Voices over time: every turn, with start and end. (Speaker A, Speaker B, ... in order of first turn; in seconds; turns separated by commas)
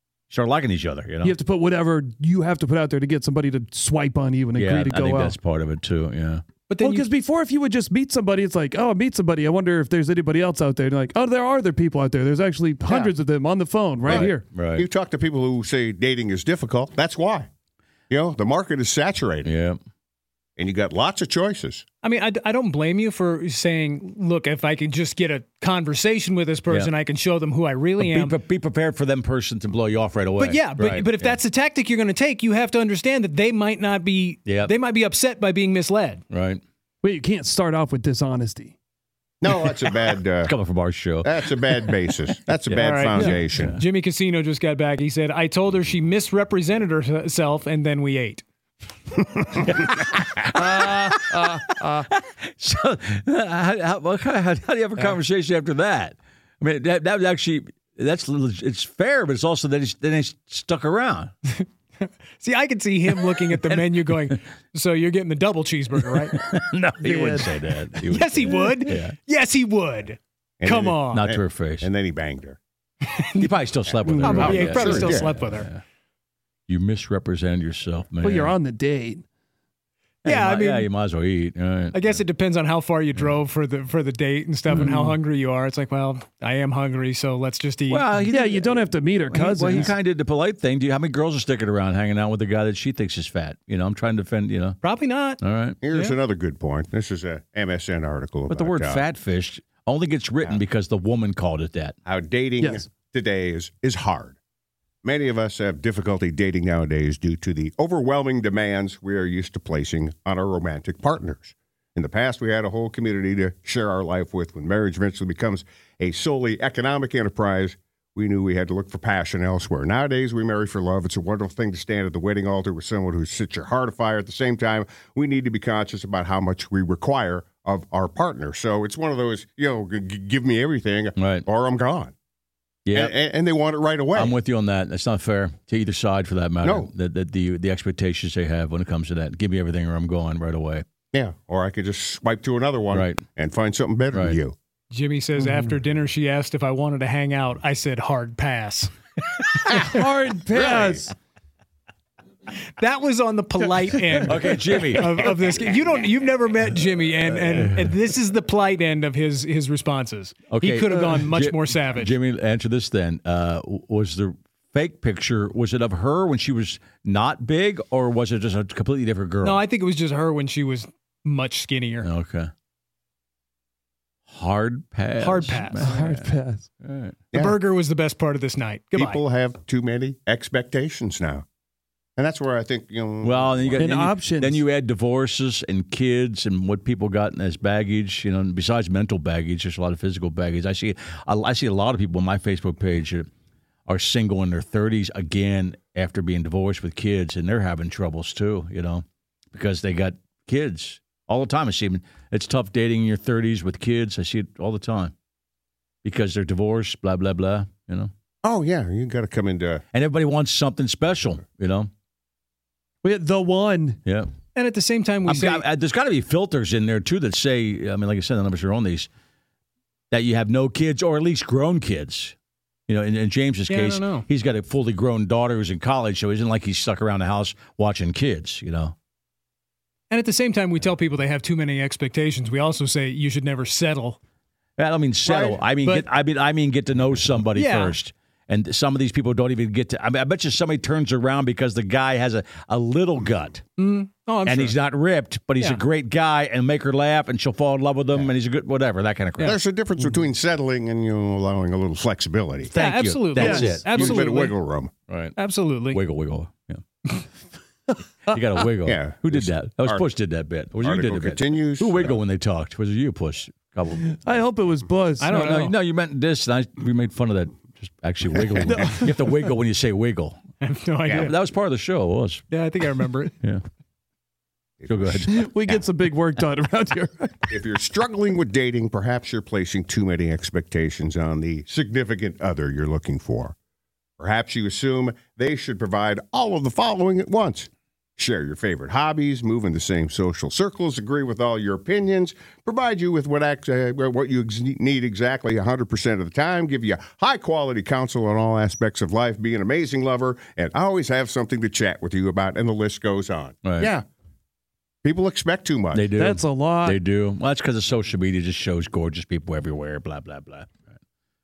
Speaker A: 0.3-1.4, Speaker B: 1.2-5.3, Speaker A: 4.5-6.4, Speaker C: 6.7-7.1, Speaker B: 6.8-14.4, Speaker A: 14.1-14.8, Speaker D: 14.1-17.5, Speaker D: 18.1-19.5, Speaker A: 19.4-19.8, Speaker D: 20.6-21.8, Speaker C: 22.0-28.3, Speaker A: 28.0-31.4, Speaker C: 30.4-36.2, Speaker A: 34.5-34.7, Speaker A: 36.3-36.6, Speaker B: 37.0-38.7, Speaker D: 39.4-40.5, Speaker A: 40.4-41.3, Speaker D: 41.2-43.7, Speaker A: 42.7-43.8, Speaker C: 42.8-48.4, Speaker A: 49.7-61.3, Speaker B: 50.5-52.1, Speaker C: 61.5-66.4, Speaker A: 63.3-64.4, Speaker A: 66.3-69.2, Speaker B: 67.0-67.6, Speaker C: 68.1-71.2, Speaker D: 70.6-72.6, Speaker A: 71.1-71.9, Speaker C: 73.0-73.5, Speaker A: 73.4-75.8, Speaker B: 74.2-74.6, Speaker D: 74.2-75.3, Speaker C: 74.2-75.7, Speaker A: 76.7-78.5, Speaker B: 78.2-79.2, Speaker C: 80.2-80.9, Speaker A: 80.2-82.2, Speaker C: 81.9-88.0, Speaker B: 84.7-85.1, Speaker A: 87.9-94.8, Speaker B: 88.3-89.9, Speaker C: 94.8-95.4, Speaker A: 95.4-95.8, Speaker D: 95.8-99.0, Speaker C: 95.9-96.2, Speaker A: 98.5-101.9, Speaker D: 102.0-104.4, Speaker D: 105.0-132.1, Speaker A: 131.2-131.4, Speaker A: 132.8-133.1, Speaker D: 132.9-134.3, Speaker A: 134.1-140.8, Speaker D: 136.6-136.9, Speaker D: 141.1-144.6, Speaker A: 142.9-143.2, Speaker C: 144.9-148.9, Speaker B: 145.4-145.7, Speaker B: 149.7-151.1, Speaker D: 150.6-151.0, Speaker C: 152.8-162.1, Speaker A: 154.3-155.2, Speaker A: 157.3-157.9, Speaker A: 160.5-169.6, Speaker C: 169.4-172.1, Speaker A: 172.0-172.5, Speaker A: 174.3-177.2, Speaker C: 175.2-175.9, Speaker B: 175.8-176.7, Speaker D: 177.3-177.6, Speaker C: 177.3-179.2, Speaker D: 178.9-181.4, Speaker D: 182.2-183.9, Speaker A: 183.2-193.3, Speaker B: 183.8-184.6, Speaker A: 193.9-205.1, Speaker A: 206.0-208.1, Speaker D: 208.4-209.8, Speaker A: 209.9-211.9, Speaker B: 213.0-214.0, Speaker C: 214.5-215.6, Speaker A: 215.2-219.1, Speaker A: 220.1-222.3, Speaker A: 222.9-228.9, Speaker C: 223.7-224.2, Speaker C: 230.1-234.2, Speaker A: 234.8-243.6, Speaker D: 235.2-235.6, Speaker C: 237.5-237.9, Speaker C: 243.8-244.8, Speaker A: 244.4-249.6, Speaker D: 249.4-252.7, Speaker A: 252.7-254.2, Speaker C: 252.8-254.5, Speaker B: 253.4-253.8, Speaker D: 253.4-254.9, Speaker A: 255.1-255.3, Speaker C: 255.3-256.0, Speaker A: 255.9-256.8, Speaker A: 258.3-264.2, Speaker D: 258.8-260.0, Speaker D: 260.8-262.2, Speaker B: 264.1-265.3, Speaker C: 265.2-265.7, Speaker A: 265.3-270.4, Speaker B: 268.5-269.3, Speaker C: 270.6-271.3, Speaker A: 271.1-272.4, Speaker C: 272.5-273.3, Speaker D: 274.8-275.8, Speaker A: 274.9-275.3, Speaker B: 275.3-277.5, Speaker D: 277.5-283.5, Speaker D: 284.2-304.1, Speaker A: 303.6-303.9, Speaker D: 305.0-306.1, Speaker A: 305.9-310.9, Speaker B: 306.2-307.0